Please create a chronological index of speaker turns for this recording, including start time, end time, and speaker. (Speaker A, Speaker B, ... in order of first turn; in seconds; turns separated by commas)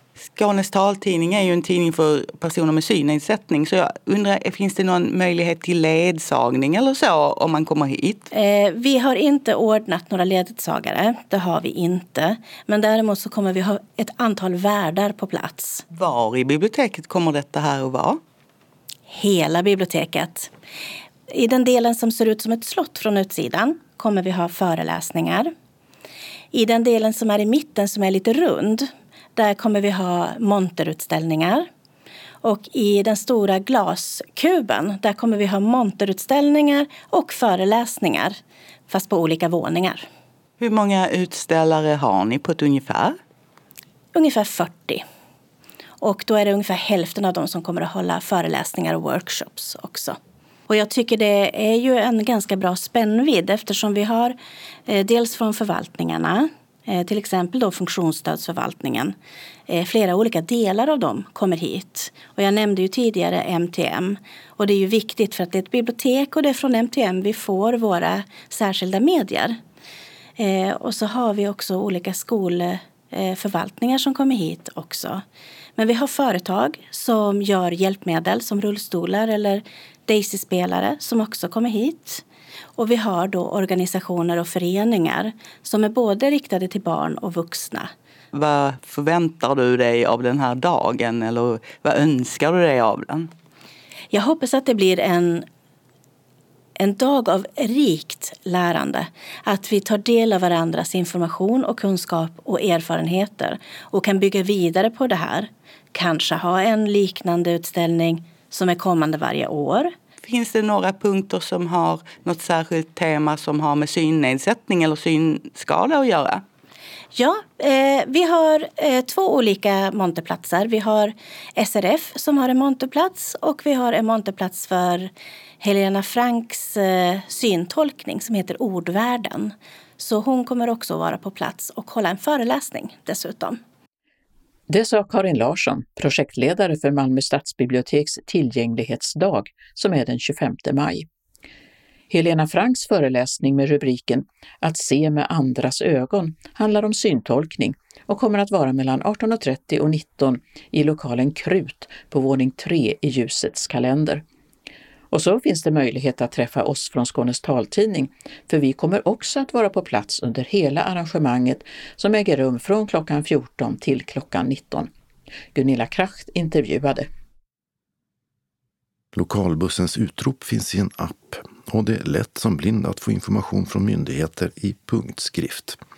Speaker A: 0.2-8.3, Speaker B: 8.3-15.8, Speaker A: 15.9-18.2, Speaker B: 19.1-20.5, Speaker B: 21.3-25.5, Speaker B: 26.5-31.7, Speaker B: 32.4-38.4, Speaker B: 38.9-40.0, Speaker A: 40.6-43.2, Speaker B: 44.1-45.0, Speaker B: 46.0-50.2, Speaker B: 50.7-54.4, Speaker B: 54.9-59.1, Speaker B: 59.7-69.6, Speaker B: 70.4-75.2, Speaker B: 75.8-82.2, Speaker B: 82.8-87.9, Speaker A: 88.3-93.3, Speaker B: 94.1-95.5, Speaker B: 96.8-109.9, Speaker A: 110.2-116.4, Speaker B: 117.1-133.6, Speaker C: 134.7-141.1, Speaker C: 142.1-154.2, Speaker C: 155.1-164.9, Speaker C: 165.5-167.1, Speaker D: 169.1-175.8